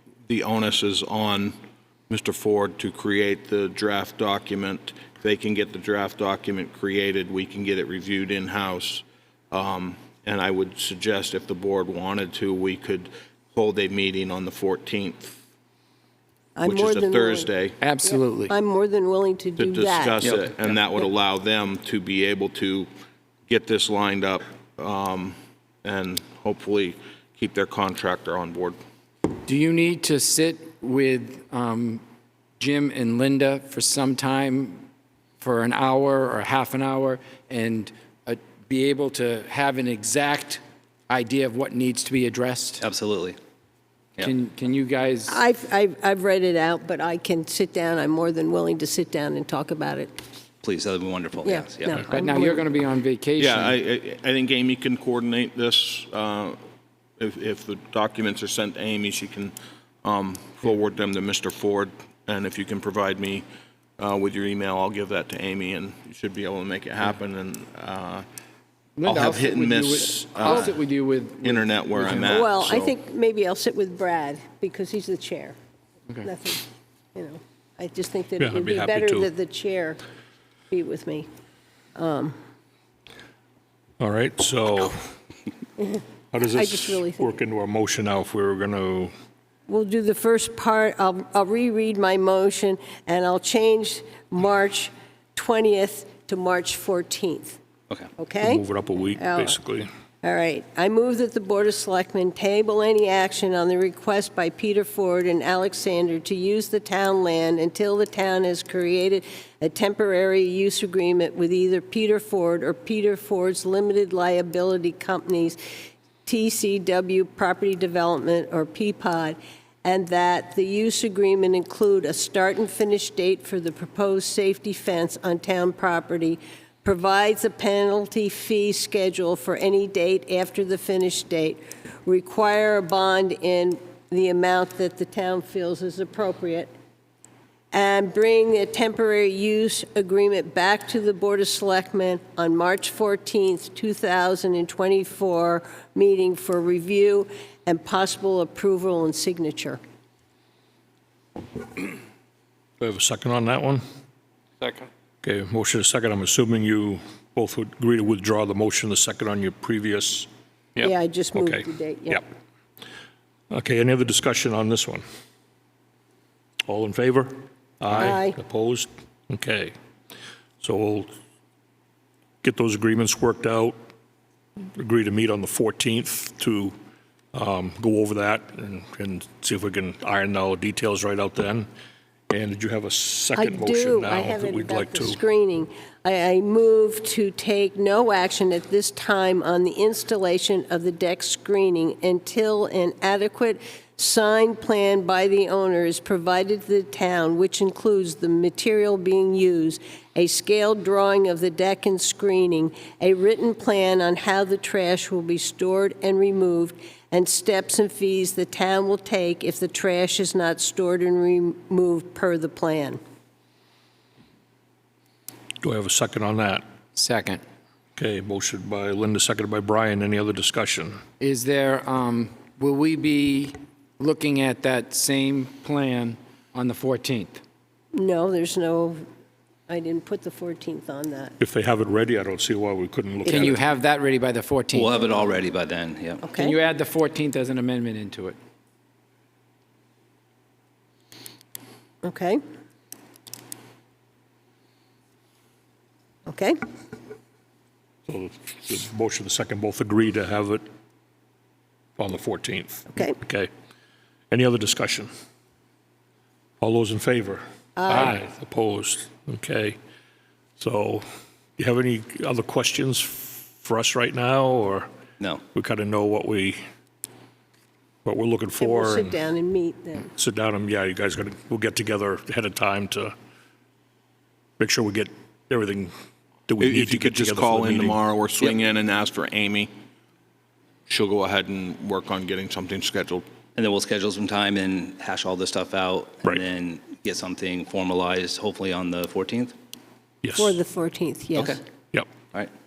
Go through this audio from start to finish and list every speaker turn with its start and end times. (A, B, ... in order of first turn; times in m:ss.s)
0:00.3-0:01.5 A
0:02.1-0:15.4 A
0:16.6-0:17.5 B
0:16.6-0:17.8 A
0:17.8-0:18.5 C
0:18.0-0:20.3 B
0:19.6-0:22.9 A
0:20.2-0:20.8 C
0:23.5-0:28.8 A
0:29.4-0:32.0 C
0:32.6-0:34.8 C
0:35.4-0:42.8 C
0:42.8-0:43.4 D
0:44.2-0:45.3 C
0:45.3-0:50.2 B
0:50.6-0:52.1 D
0:51.4-0:52.6 B
0:52.1-0:53.7 C
0:53.4-0:56.6 A
0:57.2-1:03.4 A
1:04.0-1:08.2 A
1:09.0-1:12.4 C
1:09.0-1:10.7 A
1:11.4-1:13.0 A
1:12.3-1:15.6 B
1:16.2-1:20.0 B
1:18.4-1:19.3 E
1:20.7-1:21.2 B
1:22.0-1:22.4 B
1:24.0-1:25.0 E
1:25.9-1:27.4 B
1:26.3-1:29.1 E
1:29.7-1:37.6 B
1:38.2-1:38.6 B
1:38.4-1:39.9 E
1:39.2-1:39.6 B
1:40.2-1:55.6 B
1:56.2-2:16.7 B
2:17.7-2:29.8 B
2:32.8-2:33.8 E
2:35.2-2:42.2 E
2:40.8-2:42.3 B
2:43.5-2:45.0 E
2:46.7-2:49.7 E
2:47.9-2:48.4 B
2:50.6-2:51.1 E
2:52.4-2:53.8 E
2:54.8-2:56.7 E
2:57.3-3:01.7 E
3:02.3-3:05.2 E
3:03.3-3:33.0 B
3:35.6-3:36.6 E
3:36.9-3:37.4 C
3:38.0-3:41.0 E
3:41.2-3:47.4 C
3:47.9-3:49.0 B
3:49.7-3:51.4 B
3:51.4-3:53.6 E
3:53.2-3:54.9 C
3:53.3-3:53.5 B
3:54.7-3:56.3 D
3:56.2-3:56.6 B
3:56.3-3:58.4 C
4:02.0-4:02.4 B
4:06.3-4:06.6 B
4:08.1-4:10.6 E
4:12.0-4:13.5 E
4:12.9-4:13.2 B
4:14.3-4:15.1 E
4:16.6-4:19.8 E
4:17.8-4:18.2 B
4:20.6-4:21.0 E
4:21.6-4:24.9 E
4:25.5-4:26.6 E
4:28.0-4:29.2 E
4:28.6-4:30.1 B
4:30.2-4:33.1 E
4:34.6-4:35.9 E
4:36.5-4:38.0 E
4:36.6-4:39.7 A
4:40.9-4:43.2 A
4:43.6-4:49.5 D
4:50.2-4:50.6 E
4:50.3-4:51.6 B